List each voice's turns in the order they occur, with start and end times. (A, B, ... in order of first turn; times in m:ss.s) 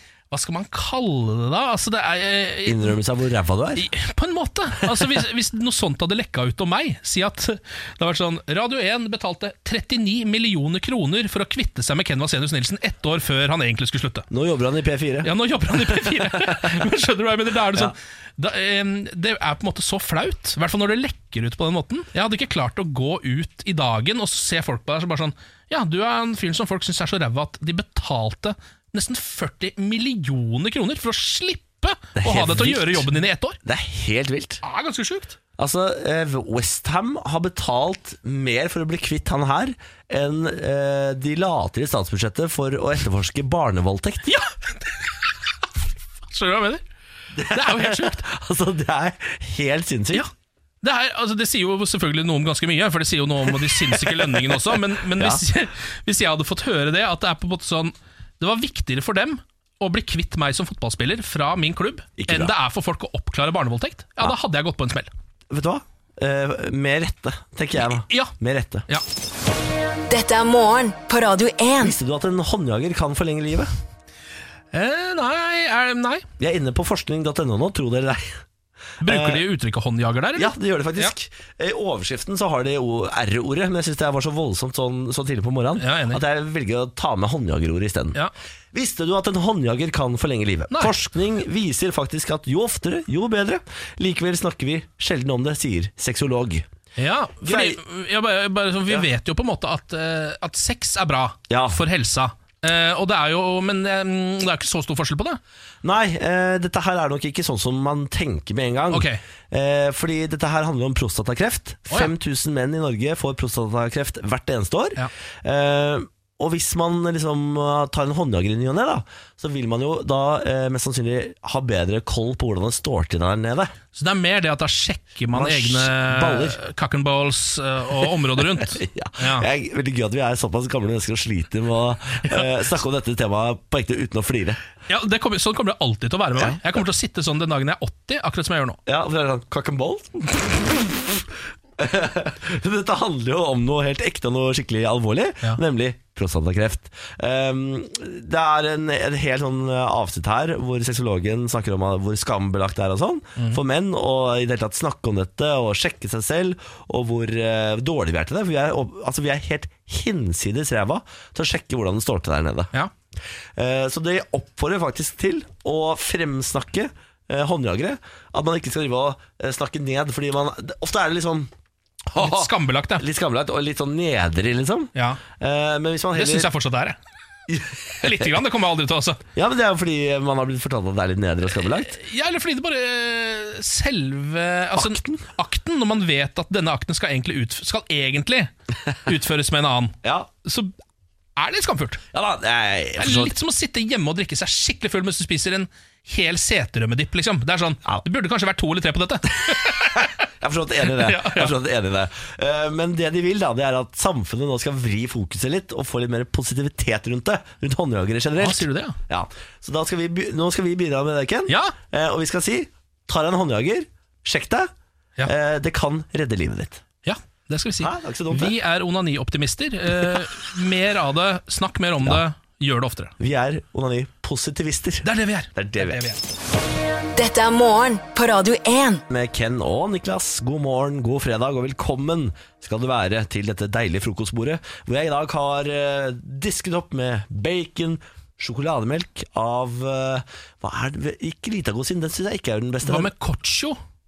0:00.3-0:03.0 A
0:02.6-0:03.8 B
0:03.8-0:14.3 A
0:14.3-0:15.3 B
0:15.2-0:33.6 A
0:15.9-0:16.5 B
0:32.2-0:33.1 B
0:33.6-0:34.6 B
0:34.6-0:35.4 A
0:35.6-0:44.3 B
0:44.3-0:45.1 A
0:46.3-0:46.8 A
0:47.3-0:50.3 B
0:47.5-0:48.2 A
0:50.8-1:05.1 A
0:53.6-0:55.4 B
1:02.2-1:02.5 B
1:05.5-1:08.9 B
1:07.8-1:08.3 A
1:10.1-1:12.0 C
1:11.8-1:13.7 B
1:14.7-1:16.3 A
1:16.4-1:18.4 B
1:19.0-1:19.4 B
1:19.0-1:21.1 A
1:20.4-1:28.2 B
1:25.8-1:26.2 A
1:28.7-1:36.7 B
1:37.0-1:45.4 A
1:37.4-1:37.8 B
1:41.5-1:41.8 B
1:45.8-2:03.7 B
1:48.9-1:49.2 A
2:03.9-2:09.5 A
2:05.3-2:06.6 B
2:08.6-2:14.6 B
2:14.9-2:18.8 A
2:16.4-2:16.6 B
2:18.9-2:21.2 B
2:21.8-2:42.7 B
2:43.6-2:51.5 B
2:52.1-2:56.5 B
2:52.2-2:53.0 A
2:55.0-2:55.2 A
2:56.1-2:57.0 A
2:57.5-2:58.3 B
2:58.0-2:59.2 A
2:59.4-3:02.0 B
3:01.5-3:08.5 A
3:04.8-3:05.3 B
3:09.0-3:10.7 A
3:10.0-3:10.3 B
3:11.4-3:12.0 A
3:12.1-3:13.3 B
3:13.0-3:20.1 A
3:19.7-3:34.7 B
3:20.8-3:21.5 A
3:28.4-3:29.0 A
3:31.5-3:31.8 A
3:35.2-3:36.8 B
3:37.0-3:43.2 A
3:37.8-3:38.5 B
3:43.2-3:46.1 B
3:45.0-3:46.2 A
3:47.2-3:49.0 C
3:49.1-4:03.1 B
4:02.8-4:03.8 A